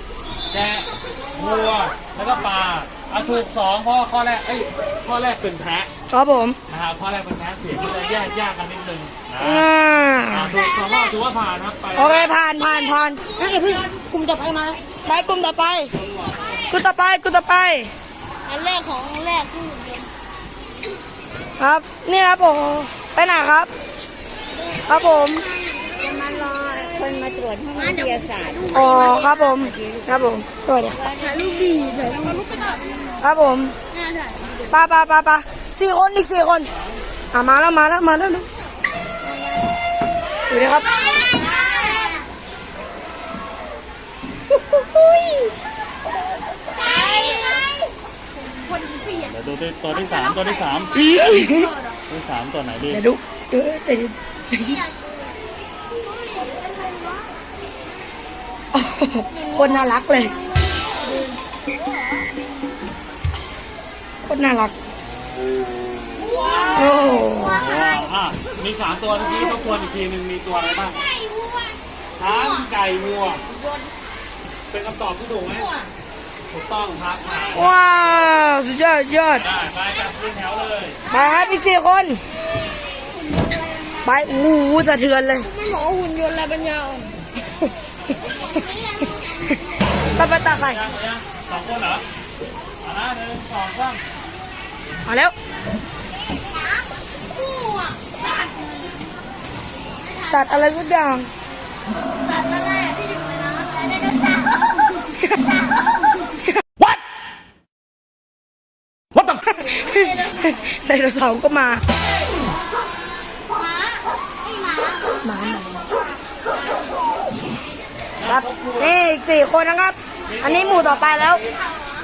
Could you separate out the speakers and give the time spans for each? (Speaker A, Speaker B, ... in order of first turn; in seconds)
Speaker A: 0.5-5.9, 6.7-9.7, 10.3-12.3, 16.0-16.6, 49.1-51.4, 52.1-53.0, 67.5-71.0, 72.2-73.4, 74.7-75.7, 76.5-77.8, 79.4-81.0, 90.5-92.0, 92.8-94.0, 118.2-119.0, 120.3-121.6
Speaker B: 6.1-6.6, 9.4-10.6, 11.9-13.3, 15.0-15.9, 16.7-17.9, 21.6-23.7, 24.8-25.5, 28.7-31.1, 33.2-33.7, 34.6-36.7, 37.3-38.5, 40.5-40.9, 51.3-51.7, 52.9-54.8, 58.7-60.4, 64.3-64.7, 66.7-67.6, 77.5-79.5, 81.1-82.2, 84.0-85.5, 90.2-90.8, 95.0-95.3, 100.2-101.3, 109.2-111.8, 115.2-115.8, 118.3-121.4
Speaker C: 13.3-14.9, 18.5-20.1, 25.5-30.0, 31.0-33.1, 33.9-34.6, 41.0-42.2, 46.8-47.8, 48.6-49.2, 50.5-52.0, 54.6-55.3, 56.0-57.3, 59.4-59.7, 60.6-61.3, 66.2-67.8, 71.0-72.6, 75.6-75.9, 82.8-84.0, 85.4-87.1, 88.3-89.4, 97.2-98.7, 100.0-100.4, 102.2-104.4, 109.9-110.4, 113.6-115.0